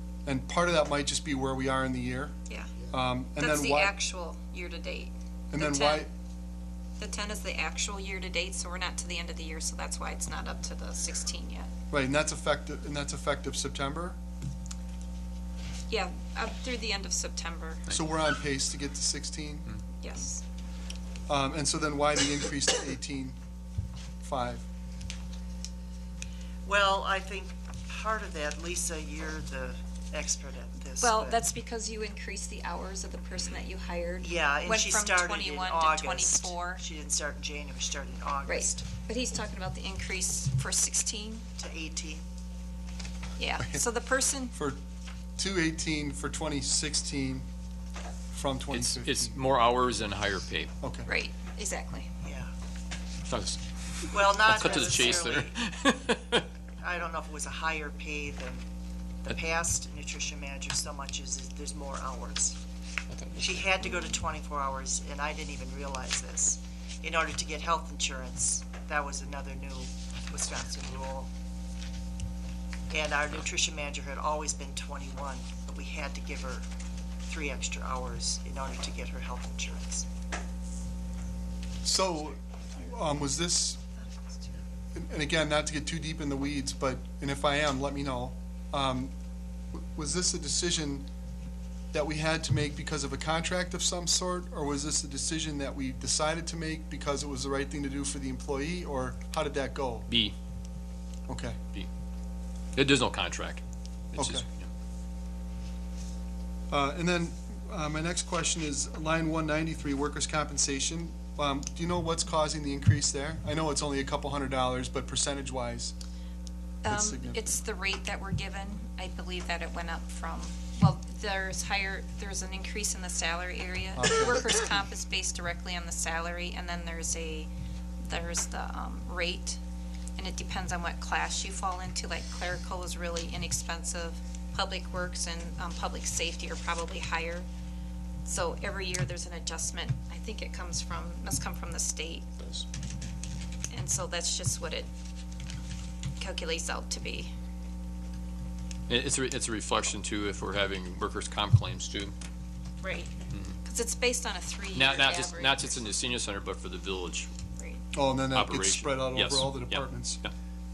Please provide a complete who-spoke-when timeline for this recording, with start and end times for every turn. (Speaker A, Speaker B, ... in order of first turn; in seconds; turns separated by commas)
Speaker A: 0.3-3.9, Speaker B: 2.5-2.7, Speaker B: 3.4-6.1, Speaker A: 5.5-6.1, Speaker B: 7.0-11.7, Speaker A: 11.9-14.2, Speaker B: 15.9-17.9, Speaker A: 17.9-19.7, Speaker B: 20.0-20.4, Speaker A: 21.3-23.4, Speaker A: 24.2-24.6, Speaker C: 26.6-31.4, Speaker B: 31.0-36.8, Speaker C: 34.2-38.9, Speaker B: 38.5-41.5, Speaker C: 41.6-42.2, Speaker B: 43.4-44.5, Speaker A: 43.6-43.9, Speaker A: 44.4-44.8, Speaker A: 45.4-47.5, Speaker A: 48.3-49.4, Speaker D: 48.7-50.7, Speaker A: 50.8-51.1, Speaker B: 51.1-52.1, Speaker C: 52.2-52.5, Speaker D: 53.3-56.5, Speaker C: 54.1-55.6, Speaker C: 56.8-58.6, Speaker C: 59.2-62.6, Speaker D: 63.1-64.3, Speaker C: 63.4-71.3, Speaker C: 72.9-76.7, Speaker C: 77.3-80.1, Speaker A: 81.8-83.8, Speaker A: 84.9-89.1, Speaker A: 89.7-91.1, Speaker A: 91.9-100.1, Speaker D: 100.1-100.3, Speaker A: 101.3-101.6, Speaker D: 102.8-104.7, Speaker A: 104.2-104.5, Speaker A: 106.7-116.0, Speaker B: 116.8-127.5, Speaker A: 116.9-117.6, Speaker A: 124.0-124.9, Speaker B: 128.0-129.6, Speaker B: 130.2-137.5, Speaker B: 138.2-142.4, Speaker B: 143.7-144.9, Speaker B: 146.2-147.3, Speaker D: 148.9-152.2, Speaker B: 152.8-153.1, Speaker D: 153.3-153.6, Speaker B: 153.6-155.8, Speaker D: 154.7-157.3, Speaker B: 157.6-157.8, Speaker A: 157.9-160.2, Speaker D: 158.3-160.3